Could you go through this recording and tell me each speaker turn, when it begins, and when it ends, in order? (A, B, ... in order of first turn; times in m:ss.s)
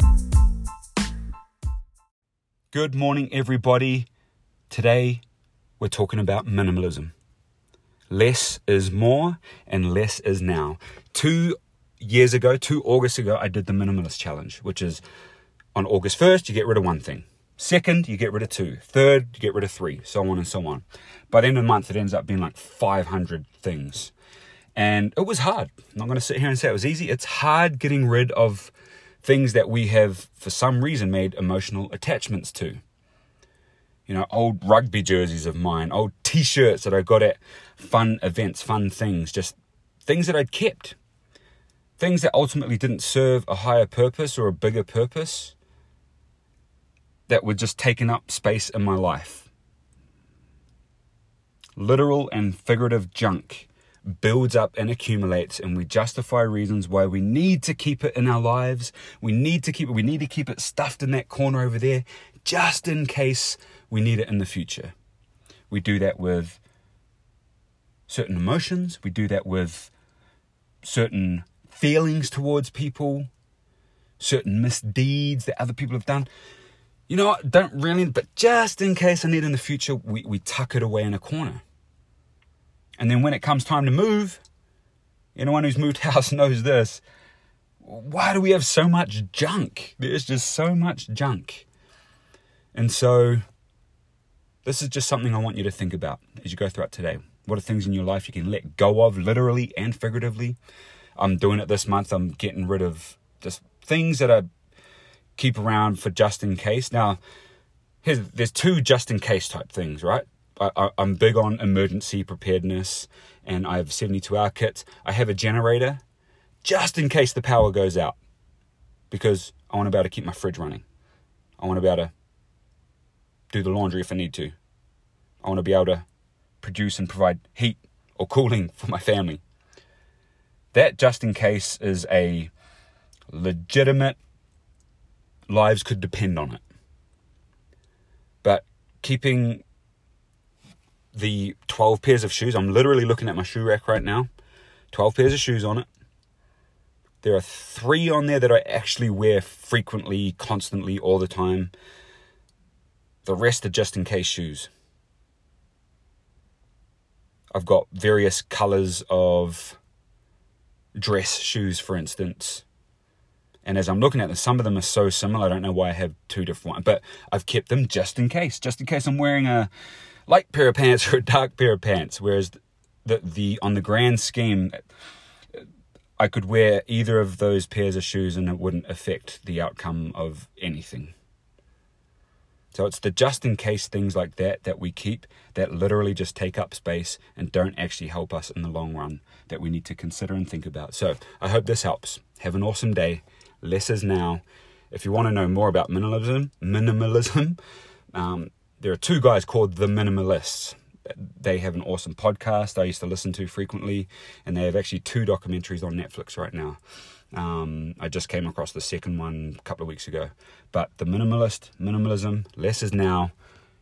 0:02.7-0:04.1 A
0:04.7-0:05.2 A
0:05.8-0:07.1 A
0:08.1-0:15.0 A
0:15.7-0:24.1 A
0:24.8-0:32.8 A
0:34.1-0:41.0 A
0:42.0-0:45.6 A
0:47.3-0:49.5 A
0:51.8-1:04.9 A
1:05.7-1:06.6 A
1:08.1-1:09.9 A
1:10.8-1:13.3 A
1:14.2-1:16.3 A
1:17.1-1:21.6 A
1:23.0-1:24.4 A
1:25.4-1:27.0 A
1:27.8-1:31.7 A
1:32.7-1:33.4 A
1:34.6-1:40.6 A
1:41.2-1:44.5 A
1:45.4-1:47.2 A
1:48.0-1:56.0 A
1:56.6-1:58.2 A
1:59.1-2:00.8 A
2:01.6-2:02.1 A
2:03.5-2:04.5 A
2:05.4-2:06.0 A
2:06.6-2:09.4 A
2:10.7-2:12.5 A
2:13.3-2:14.2 A
2:15.5-2:16.6 A
2:18.4-2:19.6 A
2:21.1-2:24.3 A
2:24.9-2:25.9 A
2:27.2-2:31.7 A
2:33.2-2:34.7 A
2:37.5-2:39.8 A
2:41.0-2:42.6 A
2:43.6-2:49.7 A
2:50.3-2:54.8 A
2:56.2-3:01.1 A
3:02.7-3:17.6 A
3:18.1-3:26.8 A
3:27.3-3:33.3 A